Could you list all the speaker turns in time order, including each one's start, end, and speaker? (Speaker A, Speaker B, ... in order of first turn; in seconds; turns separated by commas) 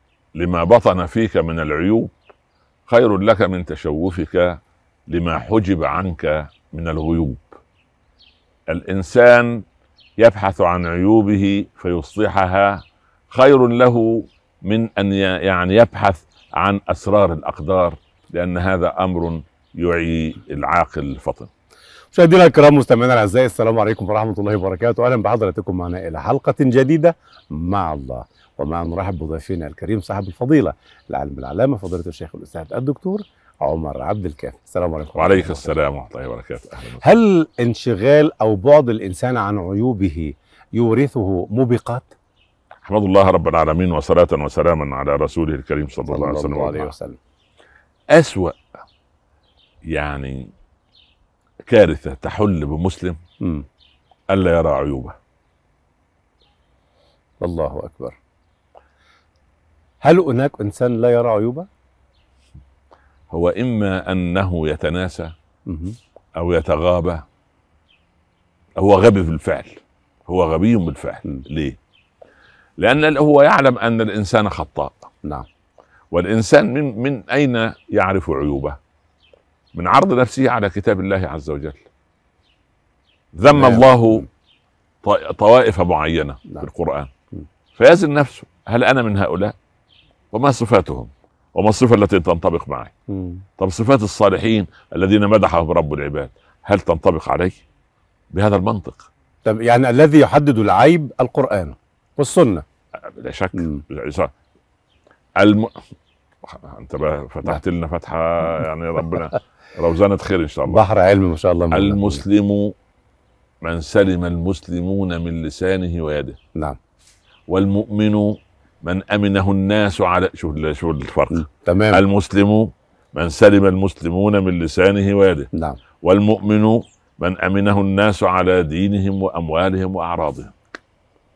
Speaker A: 0.3-2.1, Speaker A: 2.9-7.5, Speaker A: 8.7-9.7, Speaker A: 10.2-21.5, Speaker B: 22.1-35.7, Speaker A: 35.1-37.0, Speaker B: 37.0-42.1, Speaker A: 42.8-46.9, Speaker B: 46.1-47.2, Speaker A: 48.1-48.6, Speaker A: 49.8-50.5, Speaker A: 51.6-53.2, Speaker A: 54.3-55.2, Speaker B: 57.4-58.2, Speaker B: 60.0-61.7, Speaker A: 63.3-65.3, Speaker B: 65.7-66.0, Speaker A: 66.3-67.2, Speaker A: 68.8-71.8, Speaker A: 72.8-75.1, Speaker A: 76.1-78.8, Speaker A: 79.7-81.8, Speaker A: 83.3-84.2, Speaker B: 83.5-84.3, Speaker A: 85.0-87.1, Speaker A: 87.7-89.5, Speaker A: 90.3-92.9, Speaker B: 93.1-93.4, Speaker A: 93.6-97.6, Speaker A: 98.3-99.1, Speaker B: 99.4-102.6, Speaker A: 103.0-104.3, Speaker B: 103.5-103.8, Speaker A: 105.4-105.8, Speaker A: 106.4-110.8, Speaker B: 110.7-112.2, Speaker A: 111.7-112.7, Speaker A: 113.6-116.4, Speaker A: 117.5-125.5, Speaker B: 121.3-122.0, Speaker B: 125.5-125.8, Speaker A: 126.0-130.5